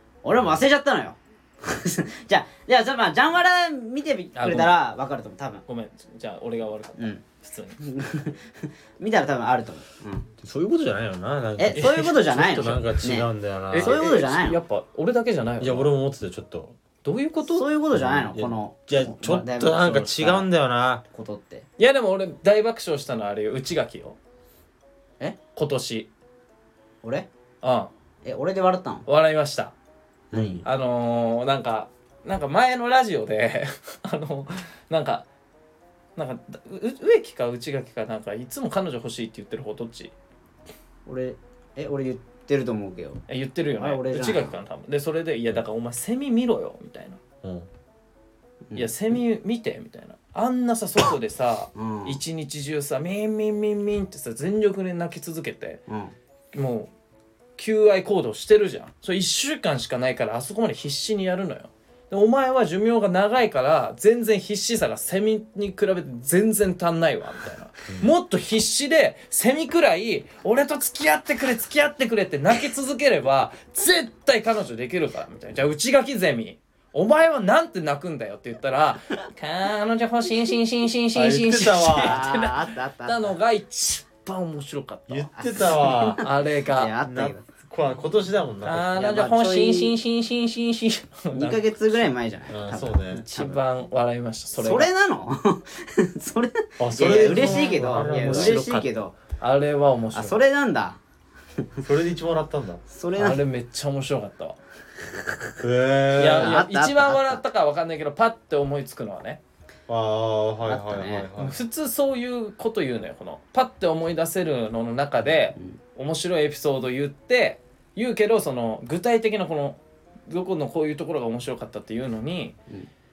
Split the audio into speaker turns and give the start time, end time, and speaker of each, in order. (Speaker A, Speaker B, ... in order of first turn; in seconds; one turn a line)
Speaker A: 0.2-5.7
Speaker B: 4.3-4.8
Speaker B: 5.7-7.8
Speaker A: 7.0-7.2
Speaker A: 7.8-10.3
Speaker C: 10.4-14.1
Speaker A: 11.6-14.6
Speaker B: 13.7-15.9
Speaker C: 15.6-16.8
Speaker B: 17.0-17.7
Speaker A: 17.5-20.5
Speaker C: 17.9-21.0
Speaker A: 21.1-21.7
Speaker B: 21.8-24.2
Speaker B: 25.6-26.1
Speaker B: 27.6-27.9
Speaker A: 28.2-29.1
Speaker B: 29.1-29.7
Speaker A: 30.3-30.6
Speaker C: 30.3-30.6
Speaker B: 30.6-35.3
Speaker B: 36.2-40.1
Speaker A: 41.1-43.2
Speaker B: 43.3-47.2
Speaker A: 43.8-44.5
Speaker C: 47.4-47.7
Speaker B: 48.8-55.8
Speaker A: 51.8-52.2
Speaker A: 55.9-56.1
Speaker B: 56.5-56.9
Speaker B: 57.6-85.3
Speaker C: 81.2-82.2
Speaker A: 82.0-83.3
Speaker C: 85.1-86.2
Speaker A: 85.4-87.5
Speaker B: 86.2-86.9
Speaker C: 87.0-88.9
Speaker B: 88.6-91.7
Speaker A: 89.0-89.9
Speaker A: 91.3-93.2
Speaker C: 92.5-93.6
Speaker B: 93.1-94.9
Speaker A: 94.6-99.2
Speaker C: 96.8-98.6
Speaker B: 97.2-100.4
Speaker A: 100.1-101.0
Speaker C: 101.8-102.8
Speaker A: 102.9-103.4
Speaker B: 103.2-104.6
Speaker C: 105.6-106.5
Speaker B: 106.2-109.4
Speaker A: 106.2-107.4
Speaker C: 109.9-111.6
Speaker A: 110.7-111.3
Speaker B: 111.4-122.6